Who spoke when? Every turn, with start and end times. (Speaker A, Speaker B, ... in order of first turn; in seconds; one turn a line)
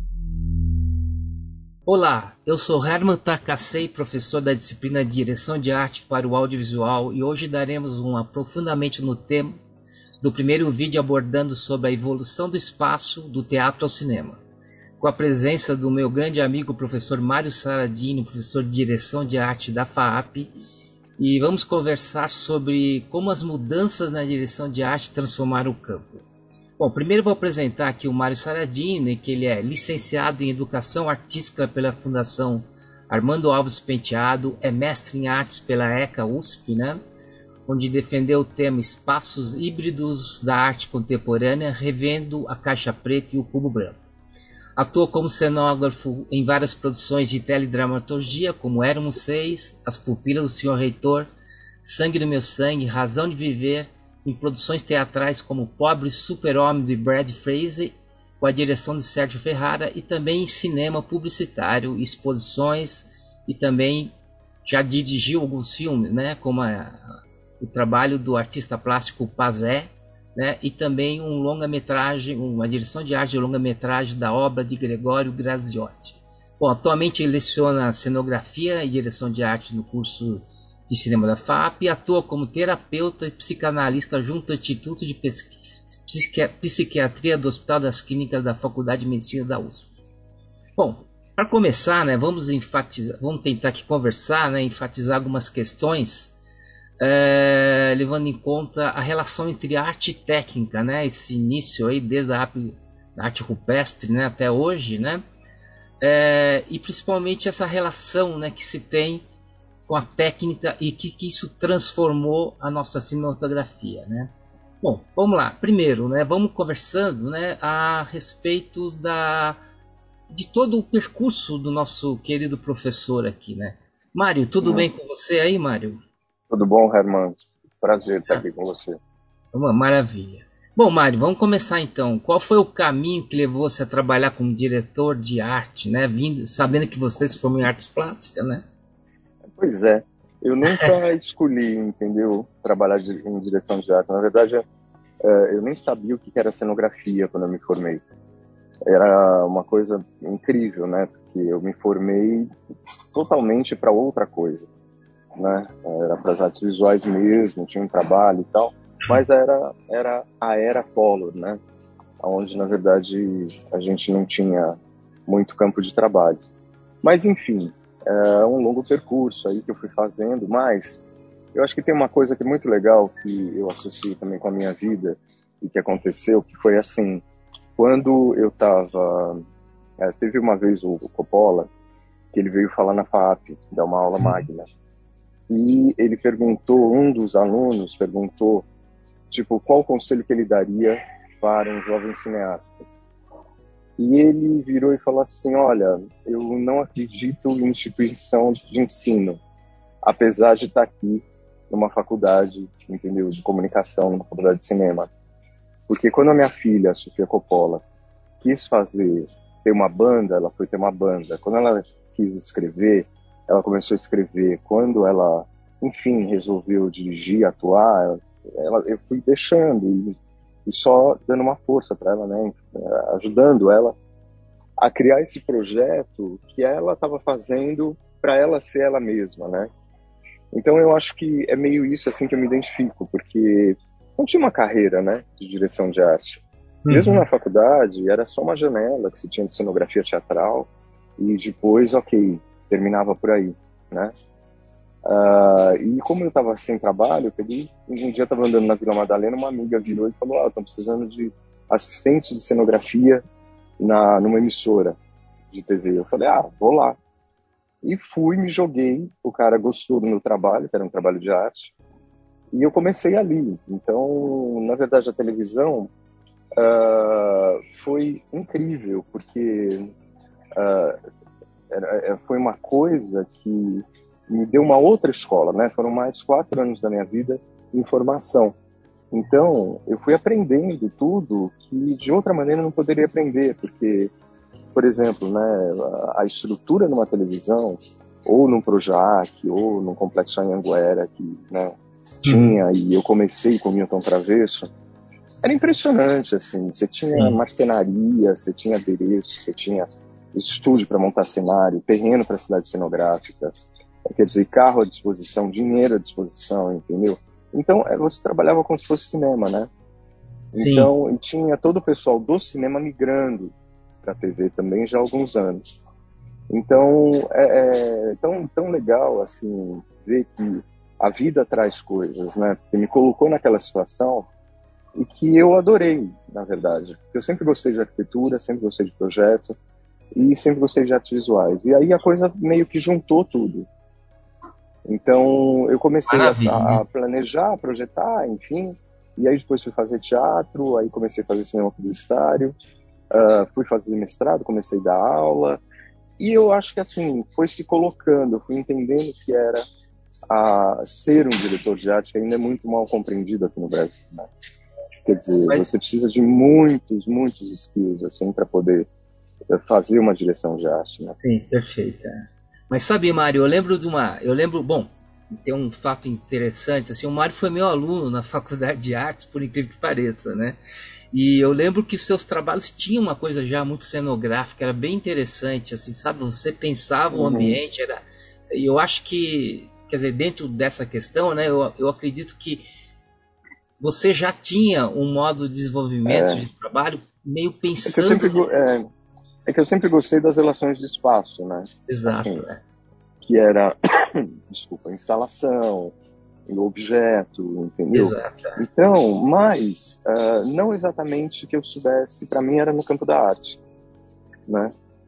Speaker A: 1.9-9.6
Speaker A: 10.2-14.4
Speaker A: 15.0-20.6
Speaker A: 21.2-26.2
Speaker A: 26.8-37.0
Speaker A: 37.7-44.0
Speaker A: 44.8-51.3
Speaker A: 51.8-64.1
Speaker A: 64.7-67.1
Speaker A: 67.6-89.9
Speaker A: 90.8-96.4
Speaker A: 97.0-105.2
Speaker A: 106.0-109.2
Speaker A: 109.9-119.6
Speaker A: 120.3-126.0
Speaker B: 124.6-124.9
Speaker B: 126.5-129.0
Speaker A: 129.5-138.7
Speaker B: 139.6-144.6
Speaker B: 145.2-148.0
Speaker B: 148.8-152.5
Speaker B: 153.1-154.7
Speaker B: 155.4-161.6
Speaker B: 162.2-166.4
Speaker B: 167.0-171.0
Speaker B: 171.5-177.2
Speaker B: 177.8-179.4
Speaker B: 180.0-181.7
Speaker B: 182.3-184.7
Speaker A: 184.2-184.5
Speaker B: 185.5-188.7
Speaker B: 189.3-192.8
Speaker B: 194.0-199.4
Speaker B: 200.0-205.1
Speaker B: 205.9-207.8
Speaker B: 208.4-220.1
Speaker B: 220.7-223.9
Speaker B: 224.8-229.7
Speaker B: 230.5-244.1
Speaker A: 236.8-237.2
Speaker B: 245.1-253.2
Speaker B: 253.8-255.0
Speaker B: 255.5-257.0
Speaker B: 257.8-261.7
Speaker B: 262.5-265.9
Speaker B: 266.6-269.9
Speaker B: 270.6-271.0
Speaker B: 271.7-278.6
Speaker B: 279.1-284.1
Speaker B: 284.7-294.7
Speaker A: 292.2-292.6
Speaker B: 295.4-303.5
Speaker A: 297.1-297.4
Speaker B: 304.1-309.7
Speaker A: 310.5-310.9
Speaker B: 310.5-315.6
Speaker B: 316.5-324.3
Speaker B: 325.0-329.6
Speaker B: 330.1-333.7
Speaker B: 334.9-342.6
Speaker A: 336.1-336.8
Speaker B: 343.1-345.6
Speaker B: 346.2-349.6
Speaker B: 350.3-354.3
Speaker B: 355.1-358.9
Speaker B: 359.5-361.2
Speaker A: 361.2-370.6
Speaker A: 371.1-382.7
Speaker B: 377.1-377.6
Speaker A: 383.8-388.5
Speaker B: 386.1-386.4
Speaker B: 387.9-388.9
Speaker B: 389.5-392.5
Speaker A: 391.9-392.6
Speaker B: 393.2-395.9
Speaker B: 396.5-403.6
Speaker A: 397.9-398.6
Speaker B: 404.5-404.7